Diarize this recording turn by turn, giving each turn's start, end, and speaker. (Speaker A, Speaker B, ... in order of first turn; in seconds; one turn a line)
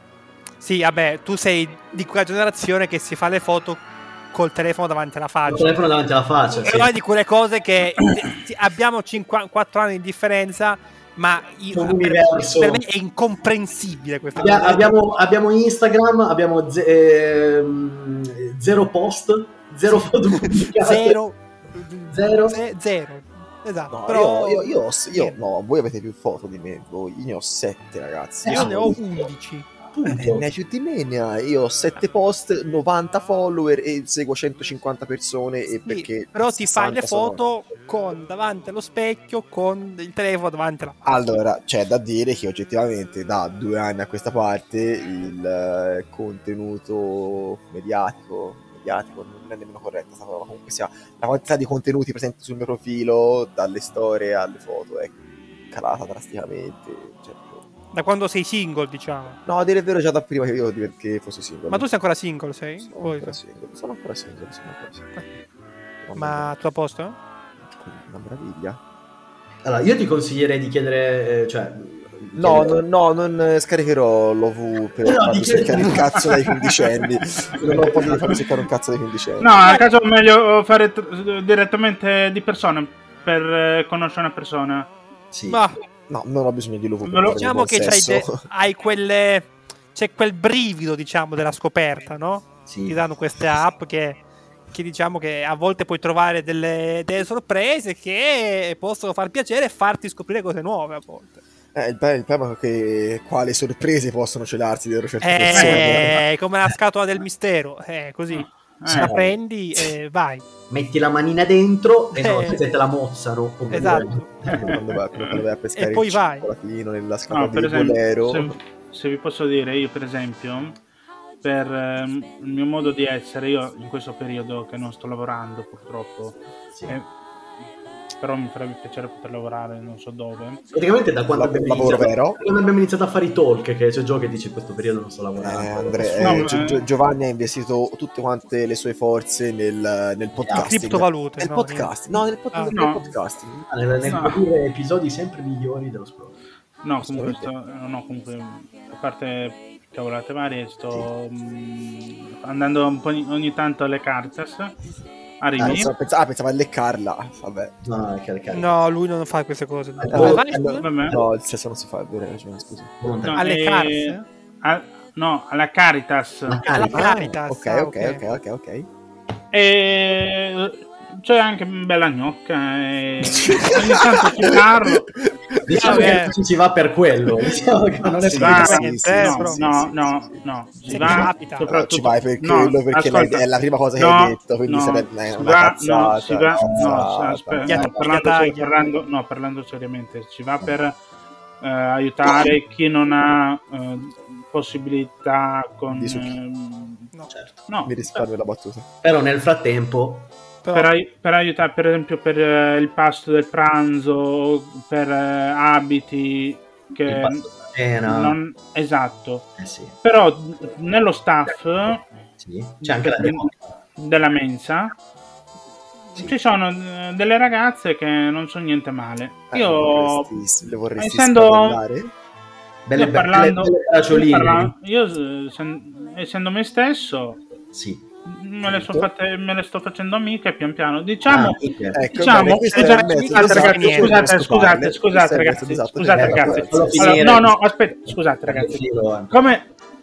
Speaker A: 0.6-5.8
Speaker B: 5.5-6.9
Speaker A: 6.6-15.0
Speaker B: 11.7-12.8
Speaker B: 14.4-21.2
Speaker A: 20.6-25.4
Speaker B: 22.1-22.6
Speaker C: 23.9-29.0
Speaker B: 28.4-29.0
Speaker A: 28.5-29.7
Speaker B: 29.9-30.5
Speaker C: 30.1-37.4
Speaker A: 35.9-41.1
Speaker C: 41.0-57.6
Speaker A: 57.9-59.4
Speaker C: 59.5-61.9
Speaker A: 61.7-63.4
Speaker C: 62.8-65.2
Speaker C: 66.0-66.5
Speaker A: 66.2-67.2
Speaker C: 67.7-68.8
Speaker B: 69.6-72.8
Speaker C: 72.4-79.7
Speaker B: 75.0-76.5
Speaker B: 77.5-78.4
Speaker D: 79.4-84.9
Speaker A: 79.6-79.9
Speaker B: 85.3-85.6
Speaker A: 85.5-85.8
Speaker C: 86.1-88.4
Speaker D: 87.0-87.5
Speaker A: 87.3-94.2
Speaker B: 92.7-93.0
Speaker A: 94.7-101.4
Speaker C: 101.7-106.2
Speaker A: 105.2-110.4
Speaker D: 105.5-106.1
Speaker D: 108.3-109.2
Speaker B: 110.7-114.8
Speaker A: 112.2-112.6
Speaker A: 113.7-114.3
Speaker C: 114.5-118.5
Speaker D: 114.6-115.4
Speaker A: 115.8-116.5
Speaker D: 117.3-120.8
Speaker D: 121.4-127.1
Speaker D: 128.2-130.6
Speaker B: 130.7-136.6
Speaker C: 131.3-132.4
Speaker C: 135.4-143.7
Speaker D: 136.2-136.8
Speaker B: 140.4-140.8
Speaker A: 140.6-142.0
Speaker D: 142.7-143.0
Speaker B: 143.7-146.4
Speaker D: 144.0-144.4
Speaker D: 146.8-154.8
Speaker C: 147.0-147.5
Speaker D: 155.4-155.9
Speaker B: 155.6-155.8
Speaker C: 155.6-157.7
Speaker B: 157.8-158.8
Speaker A: 158.5-160.9
Speaker B: 160.0-160.5
Speaker C: 160.1-162.9
Speaker D: 160.8-161.2
Speaker B: 163.0-163.4
Speaker D: 163.2-166.7
Speaker A: 163.4-164.2
Speaker B: 166.5-167.1
Speaker A: 166.7-168.2
Speaker C: 166.9-168.9
Speaker D: 169.5-175.1
Speaker C: 173.2-176.2
Speaker B: 175.6-178.8
Speaker A: 175.7-176.3
Speaker C: 177.4-177.7
Speaker C: 178.2-187.9
Speaker D: 178.3-183.4
Speaker A: 178.4-179.6
Speaker A: 180.9-181.7
Speaker D: 184.0-191.0
Speaker B: 186.5-186.8
Speaker A: 187.6-188.8
Speaker D: 191.6-197.1
Speaker C: 195.9-196.4
Speaker B: 197.3-197.7
Speaker D: 197.7-198.0
Speaker C: 197.8-198.9
Speaker B: 199.0-200.3
Speaker A: 200.6-200.9
Speaker D: 200.7-207.5
Speaker B: 207.1-208.4
Speaker D: 208.1-209.5
Speaker B: 209.6-210.0
Speaker D: 210.0-212.1
Speaker B: 212.4-213.8
Speaker D: 212.8-215.0
Speaker D: 216.2-220.3
Speaker C: 219.5-222.1
Speaker D: 221.0-221.8
Speaker B: 222.9-224.7
Speaker D: 223.0-227.4
Speaker B: 227.7-228.1
Speaker D: 228.3-231.6
Speaker C: 228.7-229.1
Speaker B: 231.2-232.1
Speaker C: 231.9-237.3
Speaker D: 232.1-239.7
Speaker A: 232.7-234.2
Speaker B: 236.1-237.6
Speaker B: 238.5-239.3